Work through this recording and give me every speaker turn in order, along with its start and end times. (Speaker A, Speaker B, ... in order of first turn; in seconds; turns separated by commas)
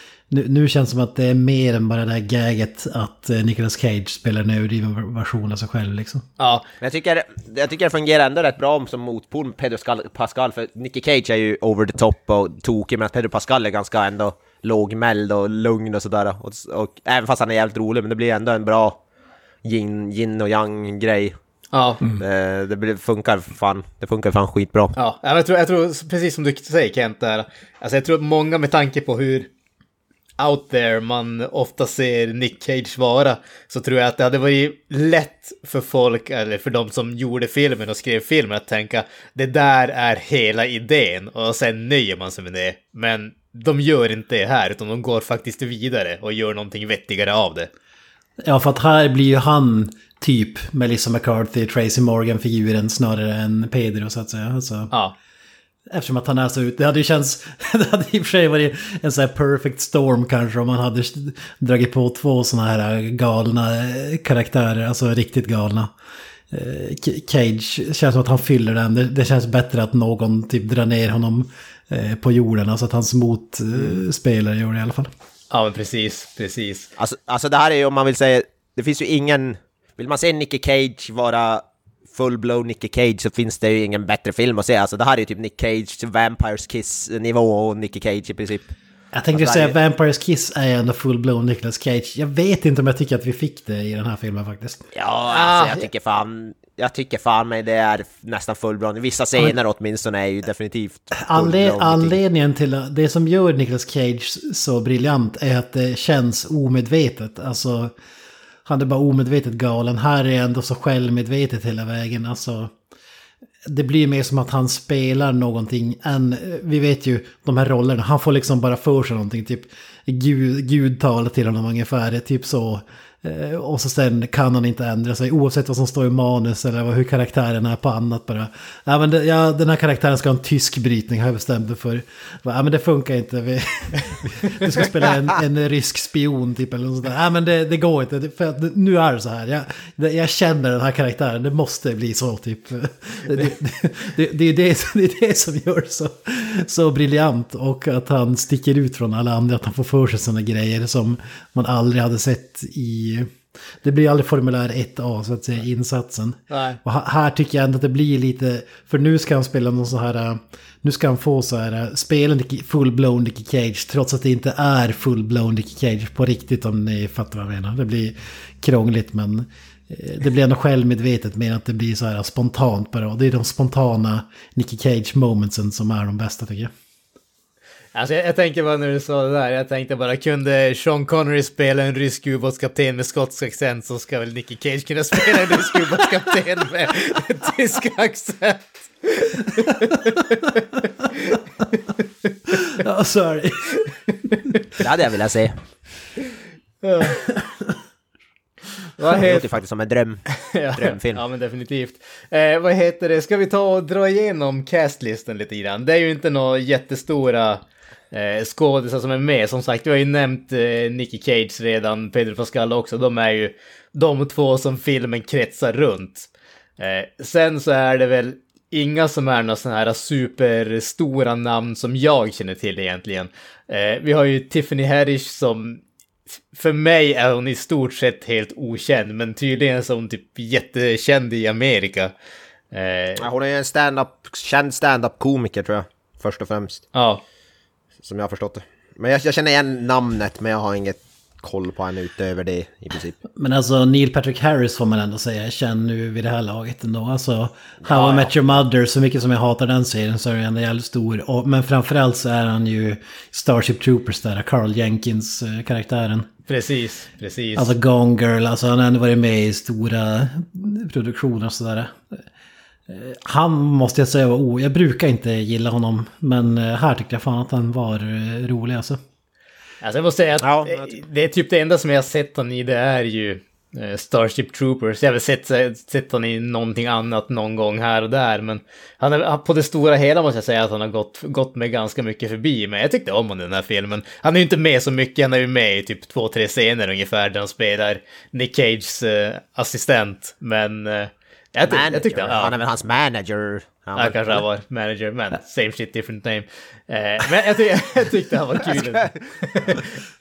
Speaker A: 0.3-6.3, Speaker B: 6.4-6.7, Speaker C: 6.8-19.0, Speaker C: 19.6-21.4, Speaker B: 21.7-22.0, Speaker C: 22.2-24.9, Speaker B: 25.0-29.5, Speaker B: 30.4-47.7, Speaker A: 48.4-54.9, Speaker A: 55.9-65.9, Speaker A: 66.5-75.1, Speaker B: 75.5-76.9, Speaker C: 77.0-88.7, Speaker A: 89.1-94.8, Speaker C: 89.3-89.8, Speaker C: 94.9-102.2, Speaker B: 95.3-95.9, Speaker A: 101.2-108.0, Speaker A: 108.7-112.7, Speaker A: 113.7-176.7, Speaker B: 156.5-156.8, Speaker B: 177.9-190.5, Speaker A: 192.5-193.7, Speaker C: 194.8-195.6, Speaker B: 196.8-197.2, Speaker A: 197.2-197.8, Speaker B: 199.0-199.5, Speaker C: 199.2-201.2, Speaker B: 200.3-225.8, Speaker B: 226.5-232.1, Speaker B: 232.7-233.2, Speaker C: 233.2-236.8, Speaker B: 236.9-237.2, Speaker C: 238.0-243.2, Speaker A: 243.3-256.3, Speaker C: 247.9-248.3, Speaker B: 247.9-248.2, Speaker B: 256.5-257.7, Speaker A: 257.6-262.0, Speaker A: 262.9-269.0, Speaker B: 269.8-292.5, Speaker C: 270.4-271.0, Speaker C: 291.7-294.4, Speaker B: 294.0-299.9, Speaker C: 298.7-299.7